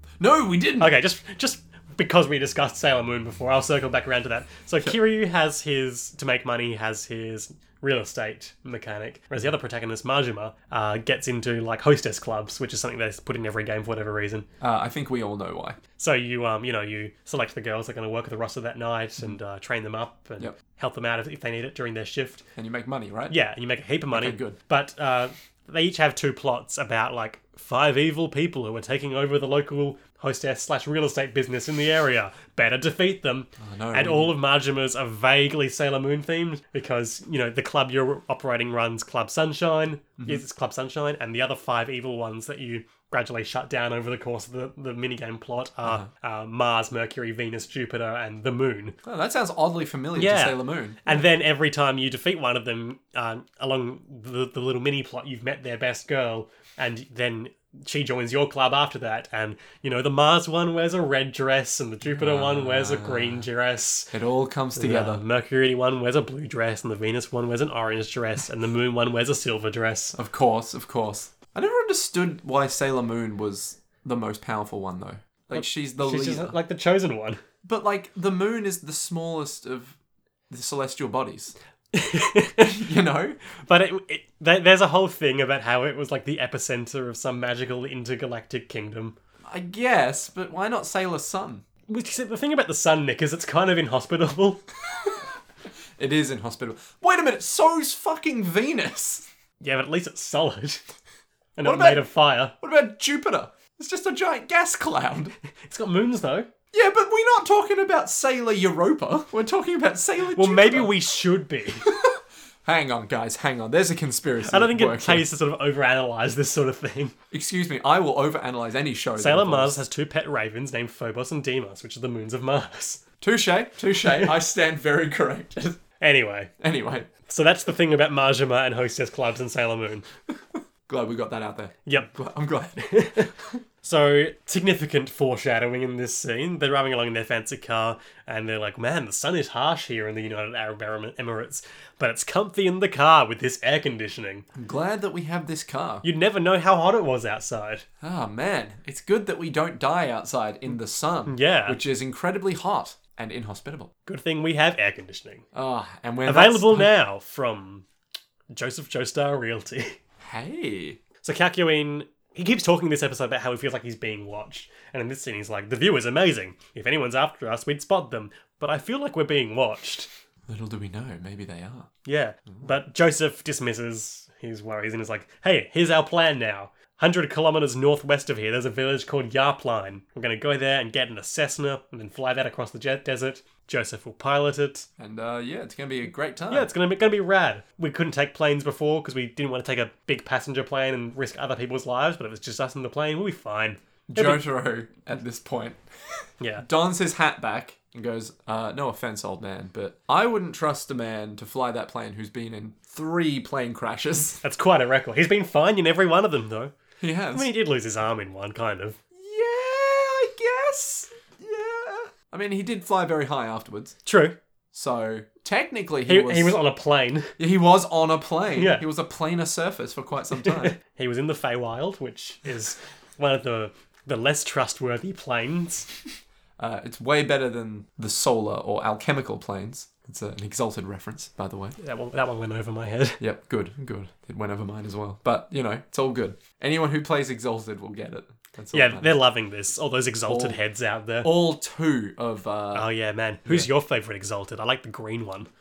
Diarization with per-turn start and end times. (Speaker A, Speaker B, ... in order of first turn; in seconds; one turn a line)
Speaker A: 0.2-0.9
Speaker B: 0.8-14.5
Speaker A: 14.6-15.8
Speaker B: 16.0-22.4
Speaker A: 22.6-23.4
Speaker B: 23.3-49.0
Speaker A: 24.1-24.6
Speaker A: 33.6-34.3
Speaker A: 40.2-40.4
Speaker A: 49.0-51.2
Speaker B: 50.1-64.1
Speaker A: 62.0-63.5
Speaker A: 64.1-65.2
Speaker B: 64.7-70.2
Speaker A: 70.1-76.5
Speaker B: 75.5-77.4
Speaker A: 77.6-80.0
Speaker A: 80.5-81.5
Speaker B: 81.9-82.8
Speaker A: 82.6-83.4
Speaker B: 83.6-89.2
Speaker A: 89.4-91.6
Speaker B: 91.9-94.6
Speaker A: 96.0-99.3
Speaker B: 99.6-100.8
Speaker B: 101.6-102.5
Speaker A: 101.6-102.0
Speaker A: 102.6-105.3
Speaker B: 105.7-106.5
Speaker A: 106.7-110.9
Speaker B: 110.3-111.9
Speaker A: 111.8-115.2
Speaker B: 114.5-117.1
Speaker A: 117.3-119.8
Speaker B: 119.2-123.0
Speaker A: 123.2-125.8
Speaker B: 126.0-126.5
Speaker A: 126.6-127.1
Speaker B: 127.2-130.1
Speaker A: 130.9-133.4
Speaker B: 132.8-133.3
Speaker B: 133.8-144.5
Speaker A: 144.5-146.0
Speaker B: 146.0-147.8
Speaker A: 148.0-153.9
Speaker B: 151.3-151.8
Speaker B: 154.1-155.4
Speaker A: 155.5-156.9
Speaker B: 156.2-157.8
Speaker B: 158.5-160.0
Speaker A: 160.2-161.0
Speaker B: 161.2-170.1
Speaker A: 170.5-171.9
Speaker B: 172.1-184.9
Speaker A: 185.0-186.7
Speaker B: 186.5-194.4
Speaker A: 194.1-204.4
Speaker B: 204.4-206.7
Speaker A: 207.0-207.5
Speaker B: 207.3-209.0
Speaker A: 209.1-214.0
Speaker B: 214.1-214.3
Speaker A: 214.7-216.6
Speaker B: 216.1-217.3
Speaker A: 217.4-220.8
Speaker B: 218.5-218.8
Speaker B: 220.4-225.9
Speaker A: 226.6-231.8
Speaker B: 231.8-233.2
Speaker A: 233.2-239.2
Speaker B: 238.7-241.3
Speaker A: 240.3-240.6
Speaker A: 241.2-242.9
Speaker B: 242.7-245.5